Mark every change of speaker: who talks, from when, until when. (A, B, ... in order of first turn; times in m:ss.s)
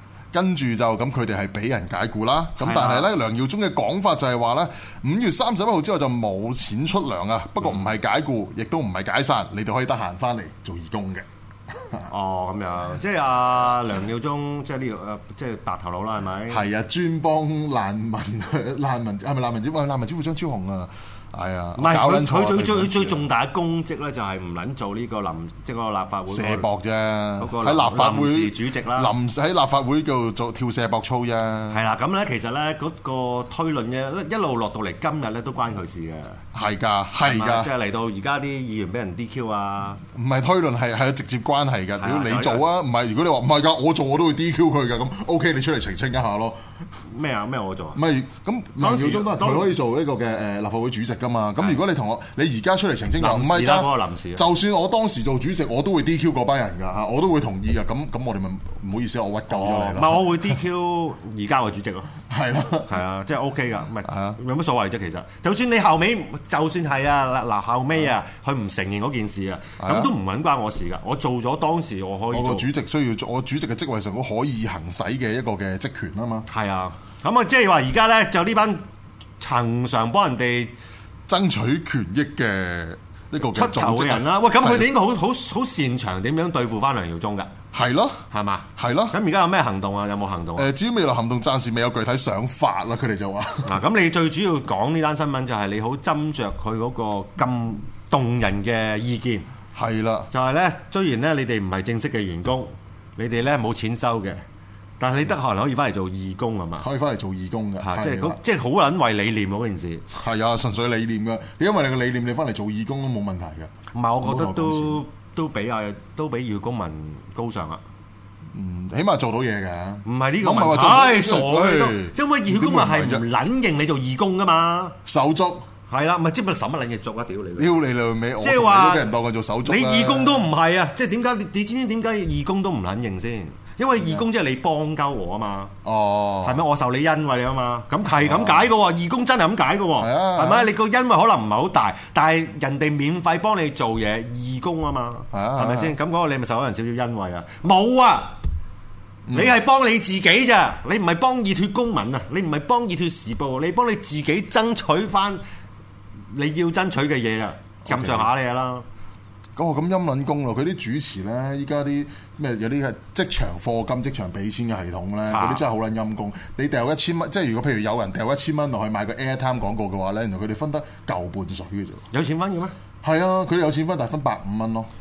0:00.3-0:12.1 A
0:02.6-0:03.1 B
0:12.1-0:16.6 B
0:16.5-0:23.2 A
0:21.8-0:26.6 B
0:26.3-0:31.8 A
0:27.4-0:29.1 B
0:31.7-0:36.4 B
0:36.5-0:37.7 A
0:37.2-0:40.0 B
0:40.0-0:46.6 A
0:42.0-0:42.6 B
0:47.1-0:48.0 B
0:47.9-1:00.5 A
0:48.8-0:49.7 B
0:53.2-0:54.4 B
0:59.5-1:02.1 B
1:02.3-1:02.9 A
1:02.9-1:12.7 B
1:04.0-1:04.4 A
1:09.8-1:10.1 A
1:12.3-1:16.5 A
1:16.5-1:18.8 B
1:19.4-1:20.7 B
1:21.3-1:24.9 A
1:23.4-1:27.5 B
1:27.7-1:28.2 A
1:28.3-1:30.7 B
1:28.8-1:29.2 A
1:30.6-1:33.8 A
1:33.6-1:39.5 B
1:39.7-1:40.3 A
1:40.3-1:44.4 B
1:45.0-1:46.9 B
1:46.8-1:48.4 A
1:47.8-1:50.0 B
1:50.1-1:55.0 A
1:53.9-1:57.8 B
1:58.5-2:03.2 A
2:00.0-2:05.0 B
2:05.0-2:05.7 A
2:05.9-2:07.7 B
2:07.6-2:10.5 A
2:08.4-2:09.1 B
2:09.6-2:15.7 B
2:15.8-2:16.6 A
2:16.4-2:28.4 B
2:18.2-2:18.7 A
2:20.0-2:20.7 A
2:25.3-2:25.9 A
2:29.3-2:29.6 A
2:29.3-2:35.4 B
2:36.3-2:38.8 B
2:37.8-2:38.3 A
2:39.6-2:52.0 A
2:45.3-2:45.6 B
2:52.1-2:52.7 B
2:53.0-2:54.9 A